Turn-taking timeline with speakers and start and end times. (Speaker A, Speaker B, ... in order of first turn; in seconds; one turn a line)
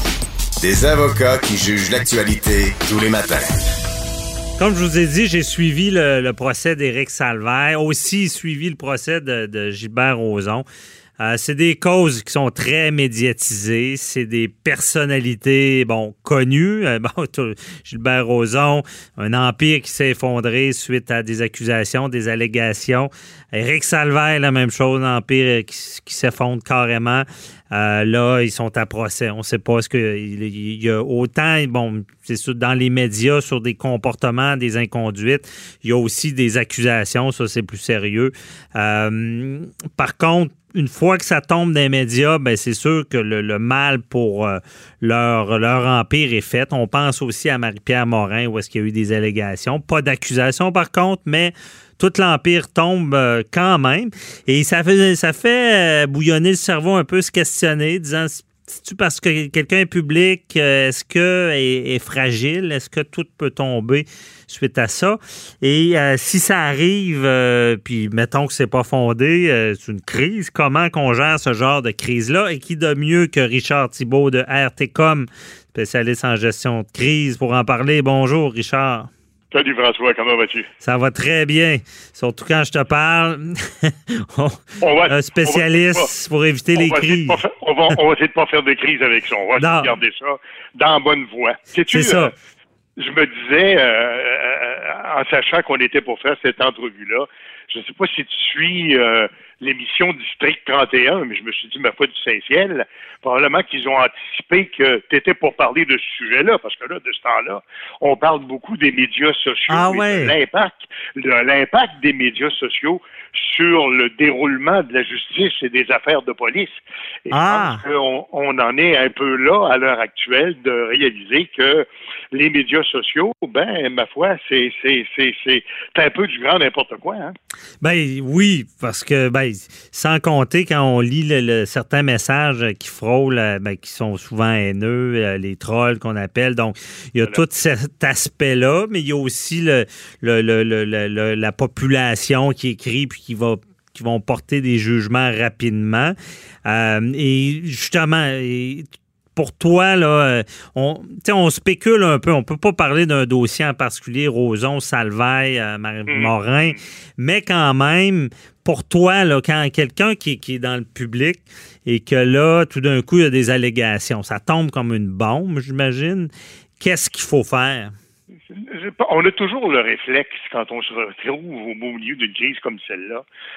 Speaker A: 0.6-3.5
Speaker B: 4.6-10.6
Speaker B: 11.2-79.1
Speaker C: 79.5-80.7
Speaker B: 80.8-87.4
Speaker C: 84.8-86.1
Speaker C: 86.7-92.3
Speaker B: 89.6-89.9
Speaker B: 91.9-92.3
Speaker C: 93.0-127.3
Speaker B: 109.7-110.3
Speaker B: 117.3-117.8
Speaker B: 127.8-146.1
Speaker B: 146.7-148.8
Speaker B: 149.3-167.9
Speaker C: 156.1-156.7
Speaker C: 168.5-173.2